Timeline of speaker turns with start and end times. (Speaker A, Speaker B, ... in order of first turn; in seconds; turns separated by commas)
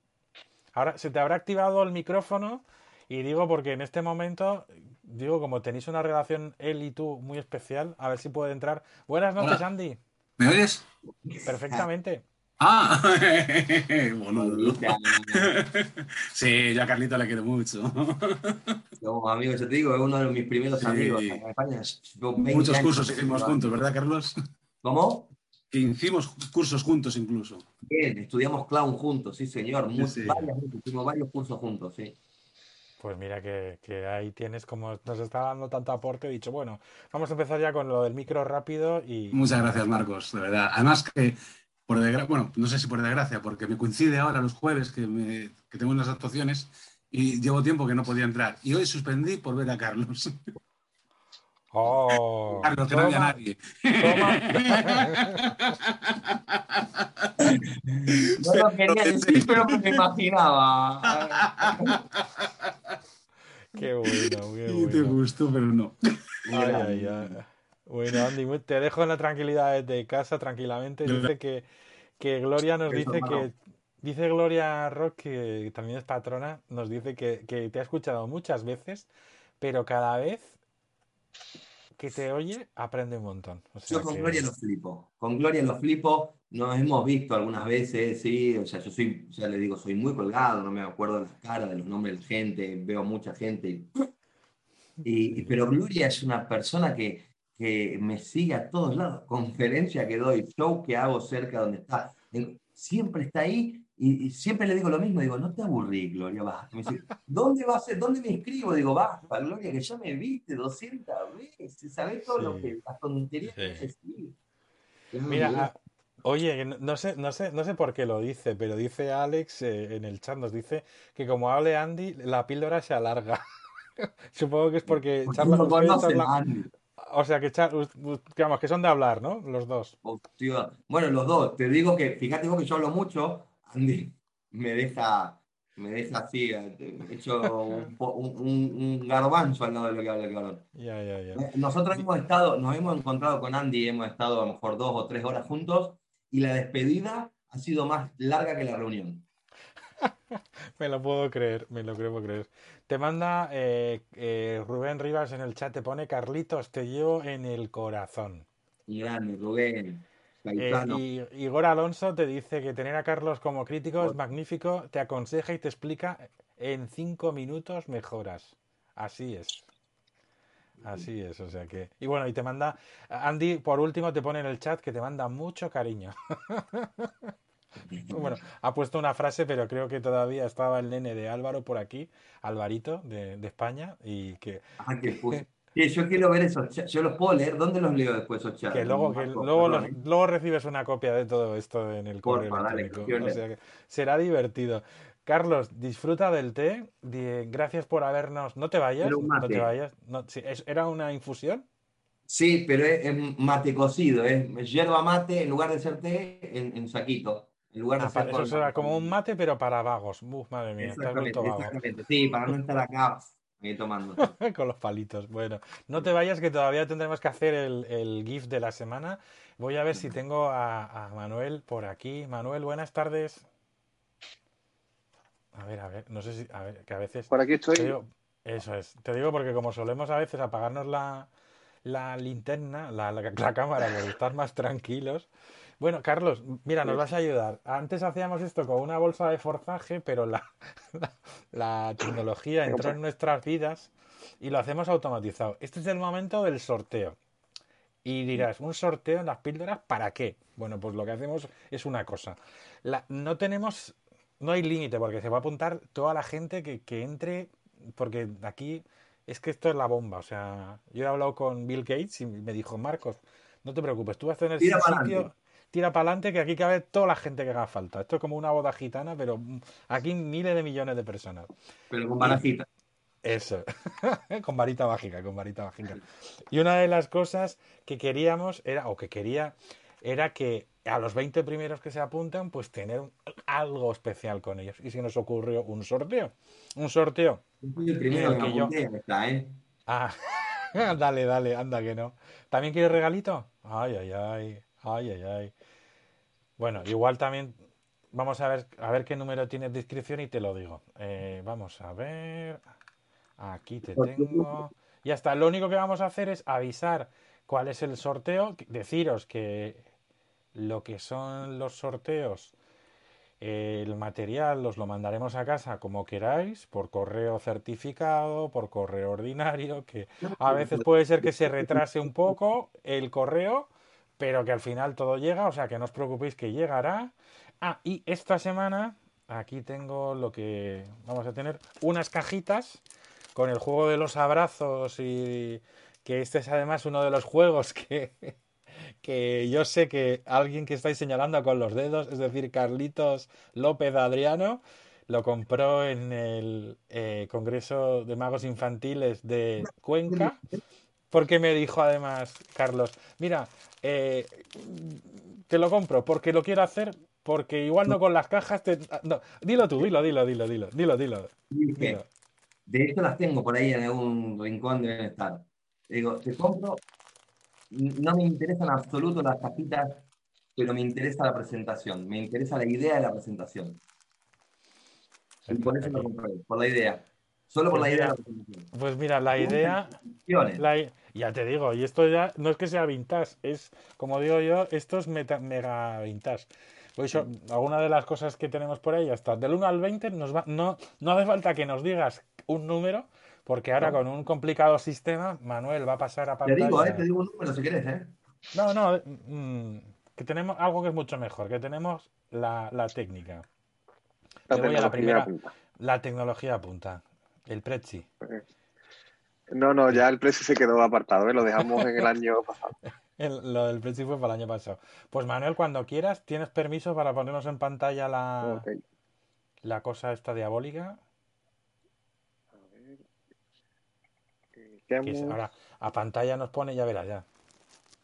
Speaker A: 0.7-10.0, Speaker B: 10.4-10.9, Speaker C: 11.3-11.8, Speaker A: 11.4-12.2, Speaker B: 12.6-18.8, Speaker C: 14.3-15.5, Speaker C: 19.0-23.6, Speaker B: 20.8-21.4, Speaker B: 22.5-24.3, Speaker C: 24.8-25.4, Speaker B: 25.7-27.6, Speaker C: 27.9-32.2, Speaker B: 30.0-30.5, Speaker A: 33.0-39.4, Speaker B: 39.3-41.4, Speaker B: 41.9-50.3, Speaker A: 51.7-53.4, Speaker B: 52.6-60.0, Speaker A: 54.0-55.2, Speaker C: 58.4-62.0, Speaker B: 61.1-62.7, Speaker A: 63.7-65.2, Speaker B: 63.8-66.0, Speaker C: 66.5-67.3, Speaker A: 66.5-71.7, Speaker A: 72.2-79.1, Speaker C: 72.9-73.5, Speaker A: 79.6-80.6, Speaker A: 82.0-84.4, Speaker C: 83.9-93.9, Speaker C: 95.0-114.4, Speaker A: 112.3-112.7, Speaker A: 113.5-113.9, Speaker C: 115.1-115.7, Speaker A: 115.3-123.4, Speaker A: 124.0-126.3, Speaker C: 124.9-126.7, Speaker A: 127.0-129.9, Speaker C: 130.0-140.7, Speaker A: 140.8-141.4, Speaker C: 141.3-149.3, Speaker A: 150.8-158.4, Speaker C: 158.9-161.0, Speaker A: 160.6-169.6, Speaker C: 170.8-171.1, Speaker A: 170.8-177.3, Speaker C: 177.8-178.4, Speaker A: 178.1-184.6, Speaker C: 184.8-190.0, Speaker A: 188.7-201.7, Speaker C: 192.2-193.4, Speaker C: 199.0-199.7, Speaker C: 202.3-209.1, Speaker A: 208.0-211.7, Speaker C: 210.8-214.3, Speaker A: 214.2-223.4, Speaker A: 225.6-231.3, Speaker D: 227.3-227.9, Speaker A: 231.8-247.2, Speaker C: 242.7-242.9, Speaker A: 248.0-271.5, Speaker C: 264.6-265.3, Speaker C: 271.9-272.7, Speaker A: 273.2-287.4, Speaker C: 287.6-289.6, Speaker A: 288.1-288.7, Speaker A: 289.9-295.5, Speaker A: 296.6-297.6, Speaker A: 298.1-302.6, Speaker A: 303.4-309.9, Speaker C: 303.9-304.7, Speaker A: 310.6-312.5, Speaker A: 313.4-332.8, Speaker C: 320.2-322.3, Speaker A: 333.4-338.4, Speaker A: 339.0-350.4, Speaker C: 349.6-350.3, Speaker A: 351.1-362.1, Speaker C: 361.5-362.0, Speaker C: 362.7-366.8, Speaker C: 367.7-373.8, Speaker A: 375.5-376.1, Speaker C: 375.5-378.7, Speaker A: 377.7-378.1, Speaker A: 378.7-379.9, Speaker C: 379.4-380.6, Speaker A: 380.6-397.1, Speaker C: 396.4-398.1, Speaker A: 398.5-403.4, Speaker D: 404.5-405.5, Speaker A: 404.5-408.1, Speaker D: 409.5-412.7, Speaker A: 413.2-418.6, Speaker D: 418.4-418.8, Speaker A: 419.6-421.0, Speaker D: 422.6-423.0, Speaker D: 424.6-425.4, Speaker A: 425.0-427.2